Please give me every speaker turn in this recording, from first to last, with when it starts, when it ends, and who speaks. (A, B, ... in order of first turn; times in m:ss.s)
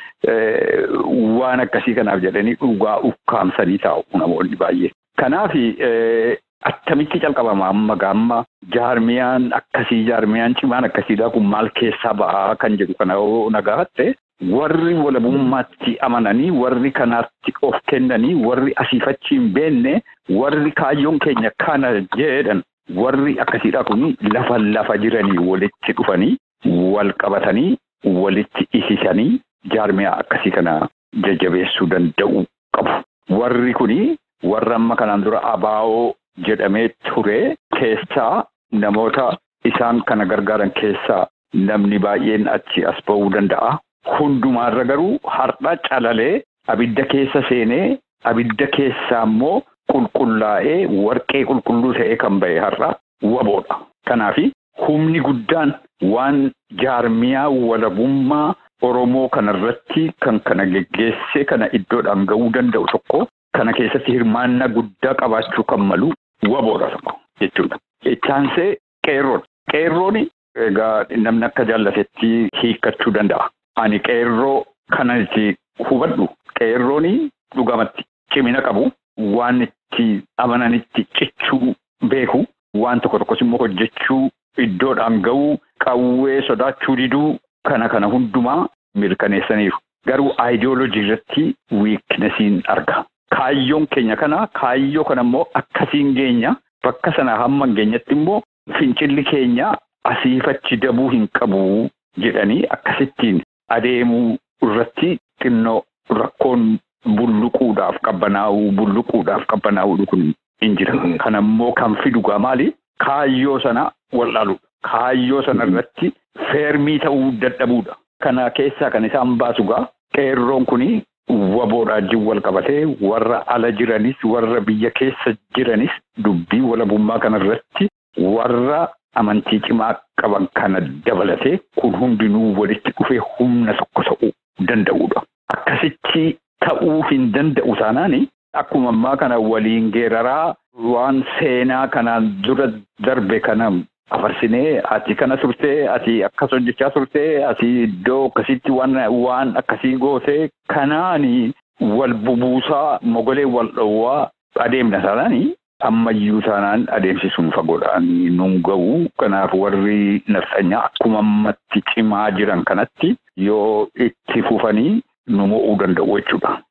0:00.2-2:46.6 A